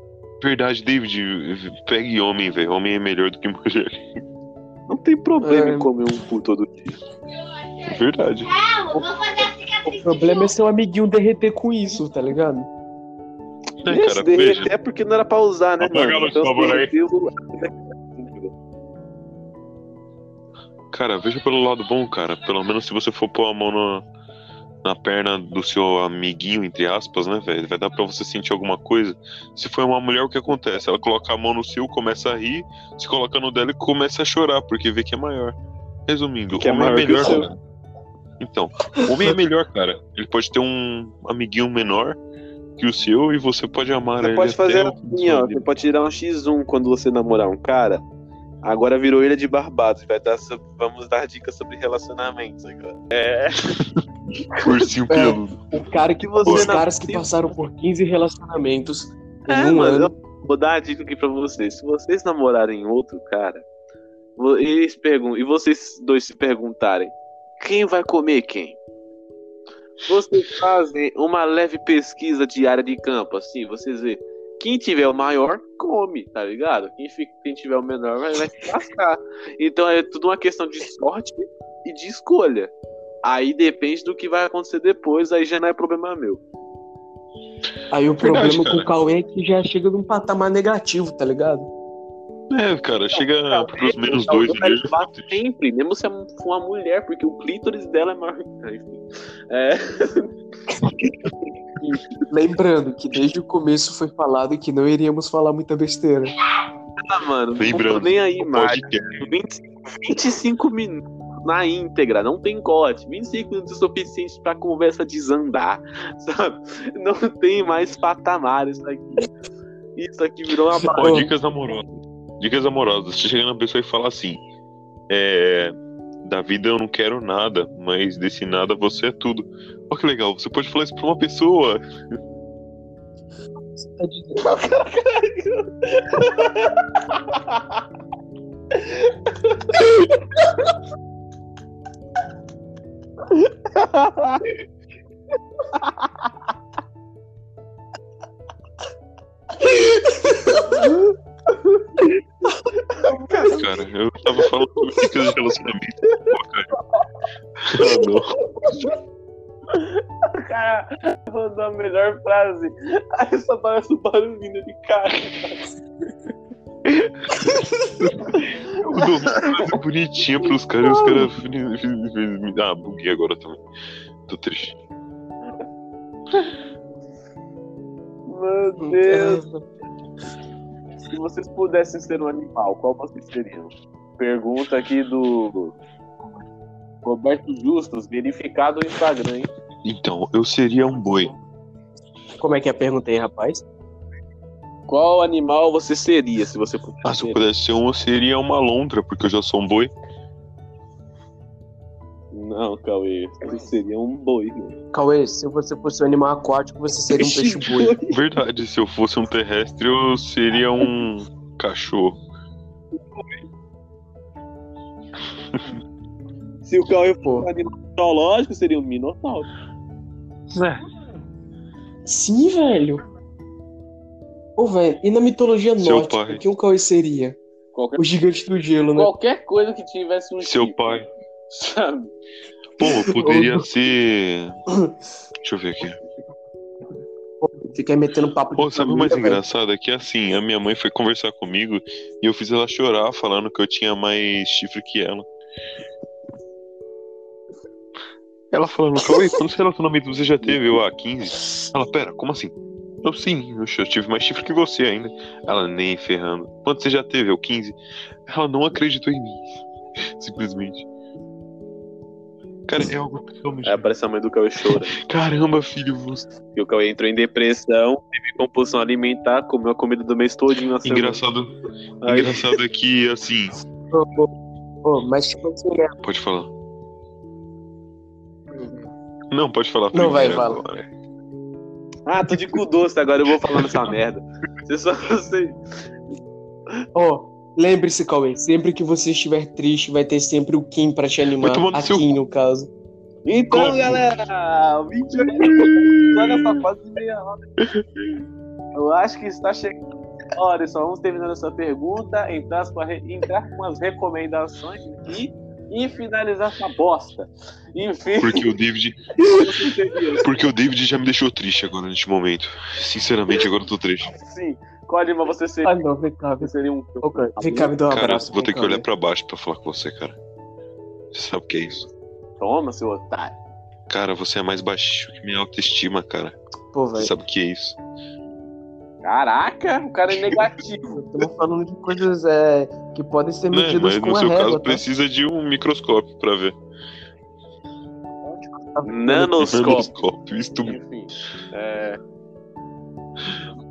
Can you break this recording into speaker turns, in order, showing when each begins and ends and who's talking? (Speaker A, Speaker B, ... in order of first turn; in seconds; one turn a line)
Speaker A: 0.4-4.2
Speaker B: 4.9-7.0
Speaker C: 5.4-5.9
Speaker A: 7.8-8.5
Speaker C: 9.7-12.7
Speaker A: 13.8-14.7
Speaker B: 13.9-18.5
Speaker A: 15.8-16.9
Speaker A: 20.9-24.1
Speaker A: 24.8-37.6
Speaker B: 36.6-37.5
Speaker A: 38.4-42.2
Speaker A: 42.8-45.6
Speaker B: 44.2-48.0
Speaker B: 48.6-53.8
Speaker A: 54.6-55.6
Speaker C: 55.1-60.1
Speaker B: 56.2-57.3
Speaker A: 56.5-56.8
Speaker B: 59.5-63.6
Speaker B: 64.4-68.8
Speaker B: 70.0-82.7
Speaker A: 70.3-70.6
Speaker B: 83.2-86.4
Speaker C: 87.9-91.7
Speaker A: 88.2-88.9
Speaker A: 92.5-95.4
Speaker B: 93.1-100.3
Speaker C: 102.3-106.3
Speaker B: 107.0-119.3
Speaker A: 107.6-109.2
Speaker B: 120.0-121.2
Speaker A: 120.8-124.4
Speaker C: 120.9-121.3
Speaker A: 125.1-131.8
Speaker C: 133.8-134.7
Speaker B: 134.4-137.8
Speaker B: 138.7-139.8
Speaker B: 143.3-144.6
Speaker B: 145.8-146.1
Speaker C: 150.3-150.9
Speaker B: 150.7-151.0
Speaker B: 152.9-153.7
Speaker A: 153.4-156.7
Speaker A: 157.6-158.3
Speaker B: 159.7-165.6
Speaker A: 166.9-173.6
Speaker B: 169.1-169.6
Speaker A: 174.3-174.8
Speaker B: 178.3-179.4
Speaker C: 178.8-179.7
Speaker B: 181.1-185.8
Speaker B: 187.0-189.5
Speaker A: 189.8-191.3
Speaker C: 192.4-193.7
Speaker B: 194.9-197.4
Speaker A: 197.0-199.9
Speaker B: 202.3-204.8
Speaker C: 204.9-208.0
Speaker B: 207.1-208.2
Speaker A: 208.1-212.2
Speaker B: 213.1-213.4
Speaker B: 216.7-219.5
Speaker A: 220.5-220.8
Speaker C: 222.1-223.0
Speaker C: 224.6-227.4
Speaker A: 225.8-226.4
Speaker B: 227.7-228.0
Speaker C: 228.0-229.1
Speaker B: 228.9-232.1
Speaker A: 230.4-231.1
Speaker A: 232.8-234.6
Speaker C: 232.8-233.6
Speaker A: 235.4-236.0
Speaker C: 237.4-239.4
Speaker A: 238.6-245.3
Speaker A: 248.5-260.9
Speaker A: 262.7-263.9
Speaker B: 263.6-265.0
Speaker A: 264.7-266.3
Speaker B: 266.5-271.2
Speaker A: 270.8-273.6
Speaker B: 272.0-272.6
Speaker C: 273.9-274.3
Speaker C: 274.8-275.9
Speaker A: 276.0-276.5
Speaker C: 278.5-278.9
Speaker A: 279.3-280.9
Speaker C: 279.9-280.6
Speaker B: 282.1-285.6
Speaker A: 283.5-284.0
Speaker C: 286.9-292.7
Speaker A: 291.4-292.1
Speaker B: 293.3-297.4
Speaker A: 293.5-294.1
Speaker A: 295.2-296.6
Speaker A: 297.6-298.2
Speaker B: 298.7-299.8
Speaker B: 300.3-308.5
Speaker A: 308.2-309.5
Speaker B: 309.3-310.4
Speaker A: 310.2-314.1
Speaker B: 314.1-315.8
Speaker C: 315.6-316.5
Speaker B: 316.4-317.7
Speaker C: 317.0-318.8
Speaker A: 317.9-320.2
Speaker A: 321.1-321.9
Speaker B: 322.4-323.4
Speaker A: 323.9-326.4
Speaker C: 326.7-327.1
Speaker A: 327.0-327.8
Speaker B: 329.0-331.0
Speaker A: 330.1-330.5
Speaker C: 330.9-334.8
Speaker A: 333.5-336.6
Speaker C: 338.6-339.8
Speaker B: 338.9-339.9
Speaker A: 339.5-340.8
Speaker B: 340.6-342.0